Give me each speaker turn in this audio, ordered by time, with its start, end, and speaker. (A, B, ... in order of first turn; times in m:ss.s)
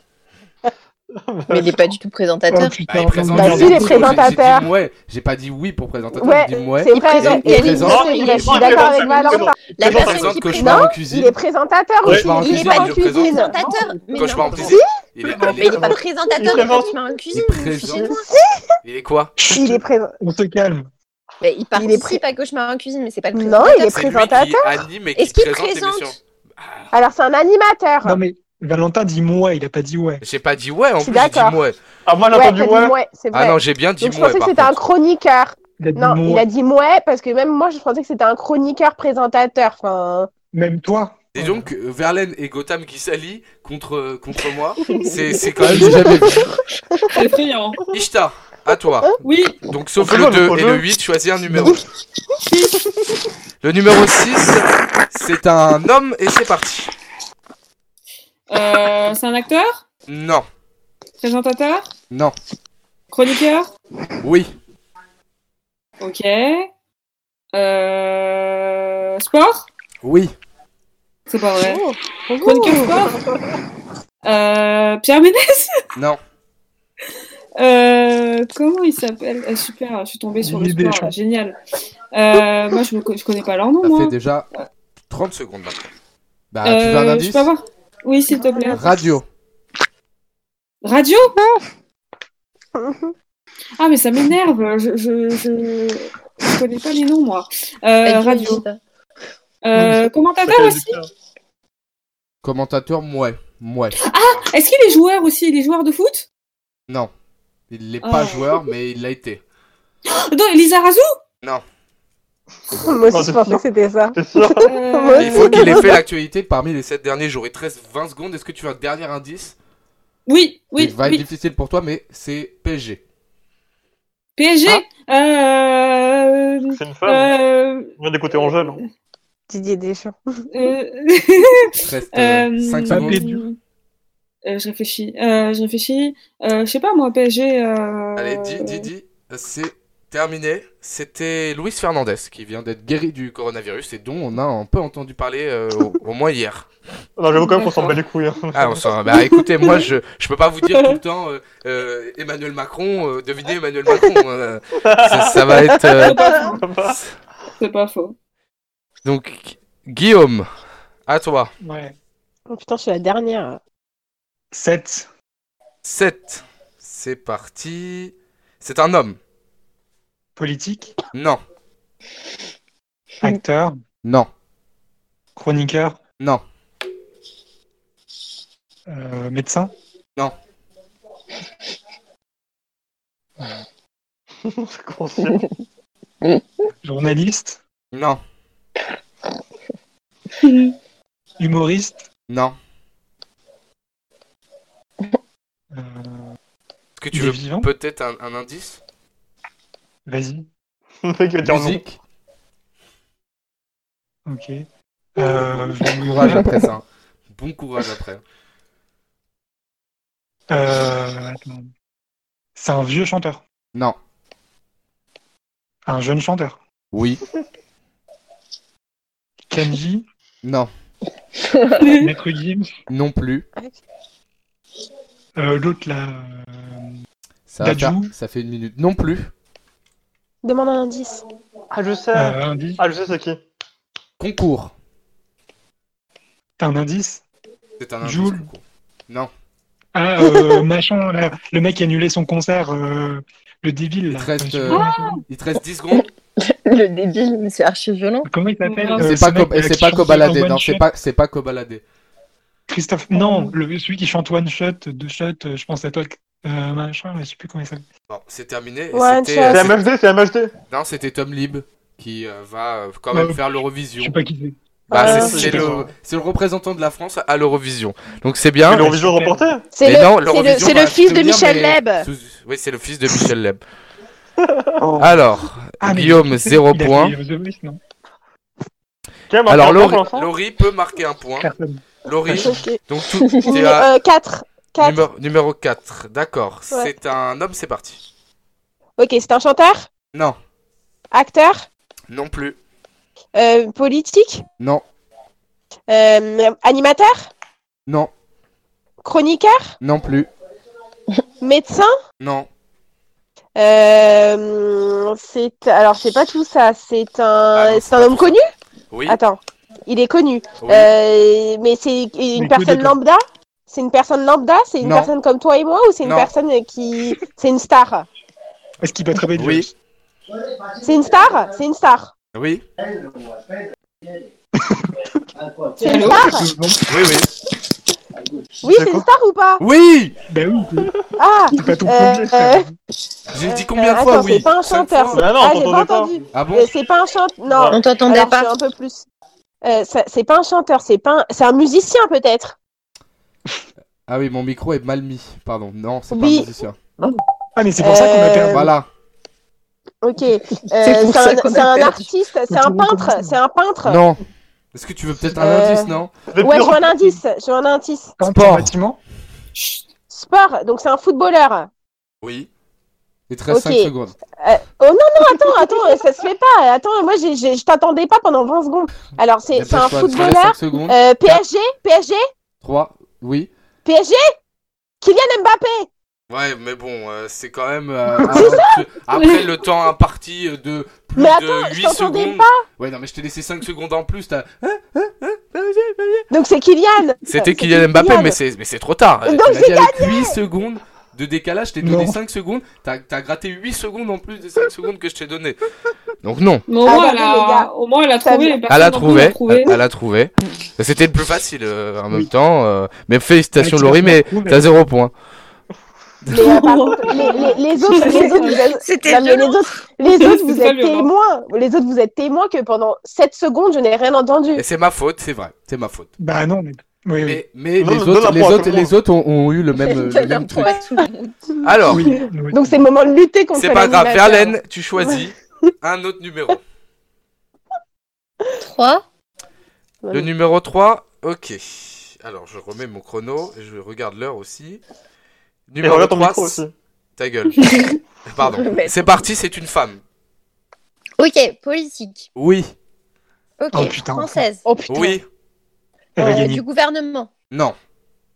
0:01.1-0:01.9 A
0:01.5-0:02.8 B
0:02.5-0:04.4 C
0:02.9-0:08.5 D
0:03.3-0:04.7 E
0:06.1-0:13.6 E
0:06.9-0:10.9 B
0:07.7-0:10.4 A
0:09.8-0:11.3 D
0:12.0-0:16.0 D
0:12.0-0:12.4 A
0:12.4-0:14.8 B
0:14.5-0:14.9 E
0:15.4-0:16.9 A
0:15.4-0:18.3 B
0:16.4-0:16.8 E
0:17.3-0:18.1 D
0:17.8-0:18.6 E
0:18.8-0:19.3 D
0:19.4-0:20.9 C
0:19.5-0:20.2 E
0:21.4-0:24.0 B
0:21.7-0:22.2 E
0:23.3-0:24.8 E
0:23.9-0:26.9 D
0:25.2-0:26.2 B
0:26.9-0:28.2 E
0:28.0-0:30.2 C
0:30.2-0:31.8 D
0:31.0-0:31.6 E
0:32.0-0:33.0 A
0:32.3-0:40.3 E
0:33.3-0:34.8 D
0:35.8-0:36.5 C
0:40.5-0:41.7 C
0:41.3-0:46.5 D
0:45.6-0:46.5 C
0:47.1-0:47.8 F
0:47.9-0:51.8 D
0:49.2-0:49.6 F
0:50.0-0:50.8 A
0:53.6-0:56.9 D
0:58.5-0:59.8 F
1:00.1-1:00.4 D
1:01.2-1:01.9 F
1:02.1-1:02.4 D
1:03.1-1:03.7 F
1:04.2-1:04.5 D
1:06.0-1:06.7 F
1:07.5-1:09.7 F
1:10.0-1:10.3 D
1:11.3-1:11.8 F
1:11.6-1:13.4 E
1:12.4-1:13.2 F
1:14.2-1:15.8 F
1:15.9-1:16.2 D
1:17.6-1:21.6 F
1:20.4-1:21.1 C
1:22.1-1:24.6 F
1:23.8-1:24.5 D
1:25.1-1:25.8 D
1:26.5-1:27.5 D
1:26.6-1:29.0 F
1:28.5-1:28.8 E
1:28.7-1:29.2 D
1:30.8-1:31.4 F
1:32.8-1:33.1 E
1:33.8-1:38.6 F
1:38.0-1:38.8 B
1:39.6-1:41.0 F
1:39.8-1:41.1 A
1:42.4-1:44.0 D
1:44.0-1:46.3 F
1:47.7-1:49.4 D
1:48.0-1:48.6 F
1:50.1-1:51.2 F
1:52.8-1:55.9 E
1:53.1-1:53.6 A
1:54.1-1:54.7 A
1:54.6-1:56.0 F
1:55.2-1:59.5 D
2:00.3-2:01.2 F
2:00.8-2:03.0 D
2:04.4-2:07.9 F
2:06.7-2:07.3 A
2:08.0-2:08.8 A
2:09.5-2:10.2 E
2:10.5-2:13.6 F
2:11.8-2:13.2 D
2:12.9-2:13.4 C
2:14.4-2:18.9 F
2:18.2-2:26.7 D
2:27.2-2:28.9 A
2:27.4-2:28.0 F
2:28.5-2:36.2 D
2:34.8-2:35.4 A
2:36.0-2:36.6 F
2:36.3-2:37.0 A
2:37.6-2:38.1 F
2:39.0-2:40.4 D
2:41.1-2:41.5 D
2:41.6-2:41.9 C
2:42.5-2:43.6 E
2:44.5-2:45.1 C
2:45.8-2:49.2 D
2:50.4-2:50.9 C
2:51.1-2:51.4 D
2:53.2-2:53.8 C
2:54.0-2:54.3 D
2:55.4-2:56.0 C
2:58.9-2:59.7 C
3:04.4-3:05.4 A
3:06.8-3:07.6 C
3:07.9-3:08.2 D
3:10.4-3:10.7 F
3:11.4-3:12.0 C
3:12.3-3:12.6 D
3:15.7-3:16.4 C
3:17.0-3:18.8 D
3:17.1-3:17.7 C
3:20.0-3:20.5 C
3:21.0-3:21.8 A
3:21.4-3:22.0 D
3:24.2-3:26.6 C
3:25.8-3:28.2 D
3:30.5-3:31.7 C
3:32.6-3:33.4 C
3:35.9-3:36.6 C
3:36.9-3:37.2 D
3:39.5-3:40.0 C
3:40.4-3:40.7 D
3:41.4-3:41.8 B
3:41.8-3:42.1 F
3:42.0-3:42.8 C
3:42.9-3:43.4 D
3:45.4-3:46.9 C
3:47.5-3:49.3 D
3:47.6-3:48.1 C
3:50.4-3:51.2 E
3:51.7-3:53.4 A
3:52.1-3:52.8 C
3:54.2-3:54.7 D
3:56.6-3:57.2 C
3:57.8-3:59.3 D
3:58.0-3:58.5 C
3:59.9-4:05.2 C
4:04.1-4:06.1 D
4:04.7-4:05.2 F
4:05.9-4:08.3 B
4:08.2-4:10.8 C
4:08.6-4:09.1 F
4:09.0-4:11.8 D
4:12.7-4:17.8 C
4:13.2-4:13.5 E
4:18.1-4:19.9 D
4:18.9-4:19.7 E
4:19.5-4:20.5 A
4:20.7-4:24.2 D
4:23.1-4:24.6 C
4:24.9-4:28.9 D
4:24.9-4:25.7 E
4:25.0-4:25.9 A
4:25.3-4:25.6 C
4:28.6-4:29.7 A
4:28.8-4:29.4 C
4:29.7-4:32.1 E
4:29.8-4:33.6 D
4:34.4-4:34.8 A
4:34.8-4:35.2 C
4:35.0-4:37.1 D
4:35.8-4:37.8 C
4:39.3-4:40.3 A
4:39.5-4:41.5 D
4:41.4-4:42.6 C
4:42.0-4:43.9 D
4:42.3-4:45.0 E
4:44.8-4:48.0 D
4:49.0-4:49.9 E
4:51.1-4:51.7 E
4:52.1-4:52.6 D
4:53.3-4:54.4 E
4:55.9-4:57.3 E
4:59.0-4:59.7 E
4:59.8-5:00.3 D
5:01.4-5:01.9 E
5:02.2-5:02.5 D
5:03.6-5:08.5 E
5:07.5-5:08.4 D
5:08.9-5:09.2 D
5:09.1-5:18.0 E
5:10.6-5:10.9 D
5:12.3-5:13.0 C
5:14.8-5:15.1 D
5:16.0-5:16.3 D
5:18.8-5:19.7 C
5:19.4-5:19.7 D
5:20.8-5:22.1 E
5:22.3-5:22.6 D
5:24.6-5:25.0 C
5:25.8-5:26.5 E
5:25.8-5:26.8 C
5:26.9-5:27.3 D
5:28.6-5:29.6 E
5:28.7-5:29.0 A
5:29.6-5:30.2 D
5:30.3-5:31.0 C
5:31.2-5:32.7 E
5:31.5-5:32.7 C
5:33.3-5:35.2 D
5:33.4-5:39.0 E
5:35.1-5:36.1 A
5:36.3-5:36.7 D
5:37.5-5:37.9 A
5:37.7-5:38.5 B
5:39.6-5:42.6 E
5:44.1-5:46.8 D
5:46.1-5:46.5 E
5:47.6-5:48.7 C
5:47.8-5:48.7 E
5:48.5-5:48.9 D
5:50.0-5:54.0 E
5:50.8-5:52.1 B
5:52.5-5:53.4 C
5:53.8-5:54.2 D
5:54.7-5:56.1 D
5:55.3-5:58.2 E
5:56.3-5:57.0 A
5:58.2-5:59.0 C
5:58.3-5:58.7 D
5:59.6-6:01.7 E
6:02.2-6:02.5 D
6:03.3-6:04.2 D
6:03.5-6:12.2 E
6:09.5-6:11.4 D
6:12.6-6:13.5 D
6:13.8-6:14.3 E
6:15.0-6:15.9 E
6:16.3-6:26.3 D
6:18.2-6:18.8 E
6:21.2-6:22.6 E
6:26.3-6:28.4 E
6:27.2-6:35.6 D
6:29.2-6:30.4 E
6:31.8-6:32.2 C
6:36.2-6:36.7 D
6:36.7-6:39.7 F
6:36.8-6:37.7 E
6:38.2-6:38.6 E
6:38.7-6:45.1 D
6:43.5-6:44.8 C
6:46.3-6:54.6 E
6:46.6-6:47.4 F
6:47.9-6:48.6 F
6:47.9-6:49.7 B
6:50.1-6:51.1 F
6:54.6-6:56.1 D
6:56.2-6:57.4 C
6:57.2-7:00.8 D
6:57.8-6:58.9 A
6:59.8-7:01.4 B
7:01.6-7:02.1 D
7:01.9-7:02.8 C
7:02.5-7:05.2 E
7:03.5-7:06.6 D
7:08.6-7:09.0 B
7:10.0-7:10.3 E
7:10.1-7:14.8 D
7:15.7-7:16.6 D
7:15.8-7:16.7 A
7:17.2-7:20.0 D
7:18.4-7:19.0 B
7:21.2-7:22.3 B
7:22.4-7:22.7 D
7:23.6-7:24.6 B
7:23.7-7:24.4 C
7:24.6-7:25.2 E
7:24.9-7:25.2 D
7:26.2-7:26.6 C
7:26.2-7:27.3 B